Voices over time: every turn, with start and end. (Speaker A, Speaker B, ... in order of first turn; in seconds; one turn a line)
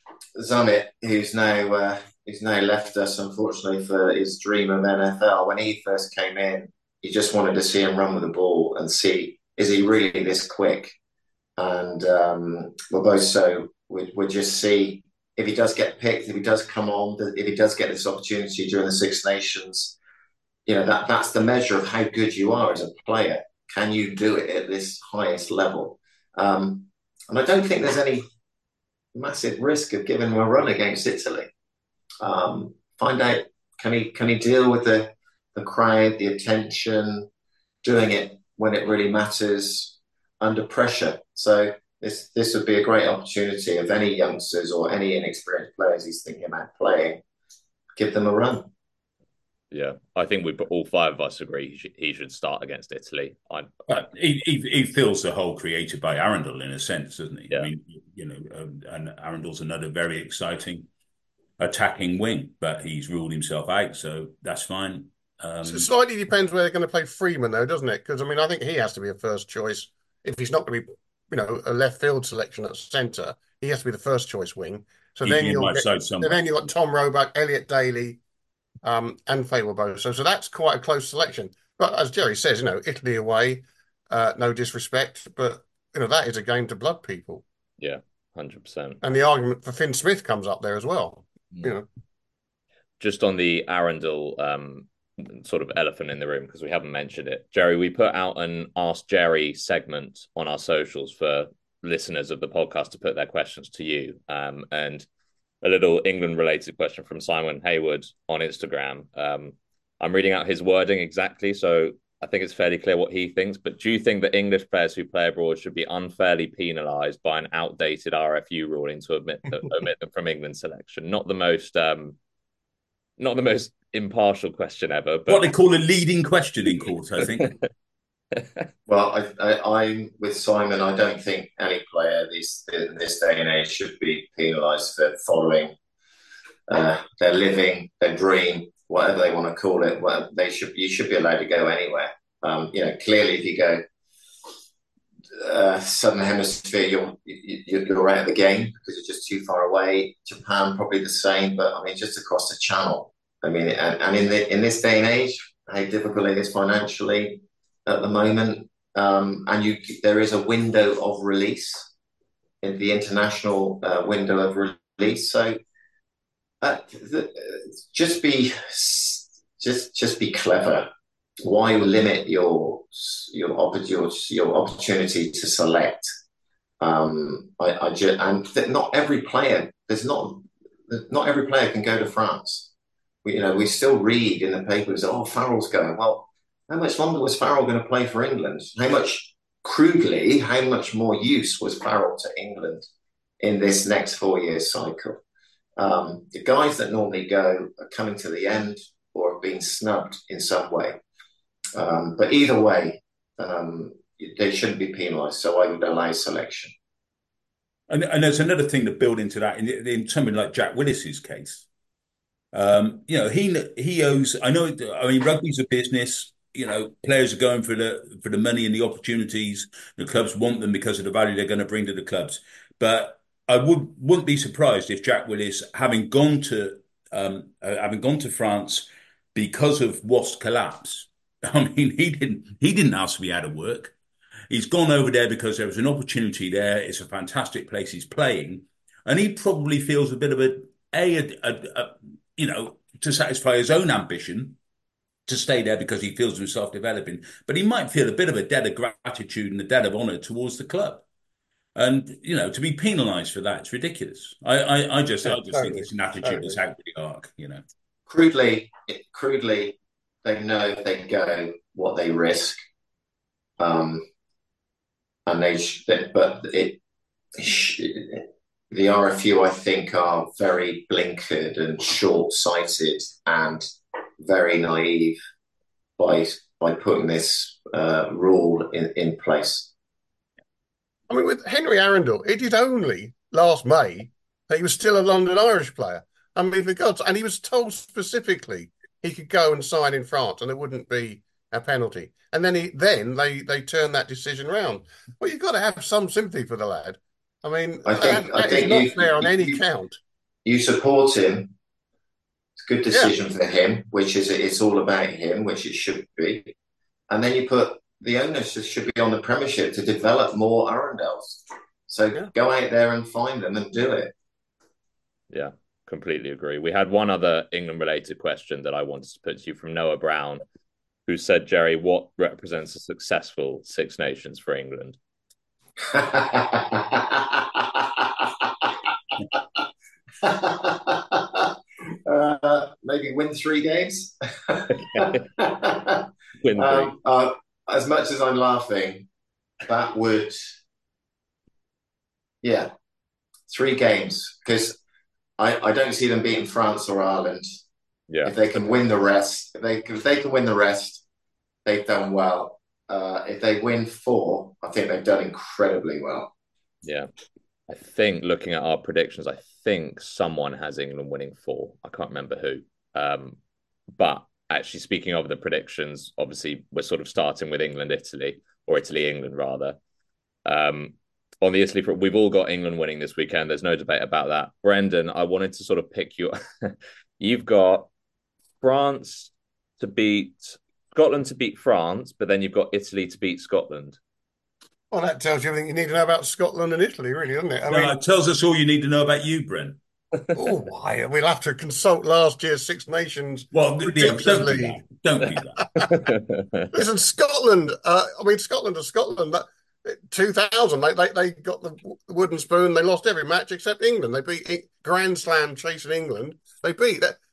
Speaker A: 0.3-10.9
Speaker A: 11.6-19.9
Speaker A: 20.6-28.2
Speaker A: 29.1-31.5
Speaker A: 32.2-37.3
Speaker A: 37.8-47.2
Speaker A: 48.0-48.7
Speaker B: 49.7-54.0
Speaker C: 53.9-60.9
Speaker C: 61.6-65.9
Speaker D: 65.6-78.2
Speaker C: 75.2-76.4
Speaker D: 78.8-87.4
Speaker B: 87.8-89.0
Speaker D: 89.0-91.9
Speaker B: 93.0-105.0
Speaker B: 105.6-122.2
Speaker B: 123.2-125.5
Speaker C: 125.3-127.5
Speaker A: 128.8-135.7
Speaker A: 136.7-143.8
Speaker A: 145.3-161.9
Speaker A: 162.6-165.6
Speaker A: 166.6-170.9
Speaker A: 171.4-176.1
Speaker A: 176.8-182.7
Speaker A: 183.2-192.8
Speaker A: 193.4-195.2
Speaker A: 195.8-201.0
Speaker A: 201.8-206.7
Speaker C: 207.9-211.6
Speaker C: 212.5-233.9
Speaker C: 234.5-244.6
Speaker C: 245.3-251.0
Speaker C: 251.7-257.6
Speaker D: 255.2-256.6
Speaker A: 258.1-262.6
Speaker A: 263.6-264.0
Speaker A: 265.2-266.8
Speaker A: 267.4-273.7
Speaker A: 274.2-275.2
Speaker A: 276.0-279.7
Speaker D: 281.1-300.0
Speaker A: 297.9-299.6
Speaker A: 300.4-301.5
Speaker A: 302.6-306.5
Speaker A: 307.1-314.1
Speaker B: 315.3-320.4
Speaker B: 321.1-325.0
Speaker A: 325.9-328.7
Speaker A: 329.3-329.6
Speaker A: 330.2-331.5
Speaker A: 332.1-339.1
Speaker B: 336.4-336.9
Speaker A: 339.6-340.5
Speaker A: 342.4-342.7
Speaker A: 343.5-344.8
Speaker A: 345.4-347.4
Speaker A: 348.2-351.0
Speaker A: 351.6-356.3
Speaker B: 356.8-357.1
Speaker B: 357.7-363.4
Speaker B: 364.0-369.8
Speaker B: 370.4-377.9
Speaker B: 378.6-384.0
Speaker D: 384.9-387.9
Speaker C: 387.7-389.8
Speaker D: 390.3-394.8
Speaker C: 393.5-395.7
Speaker D: 395.4-395.9
Speaker D: 396.7-407.2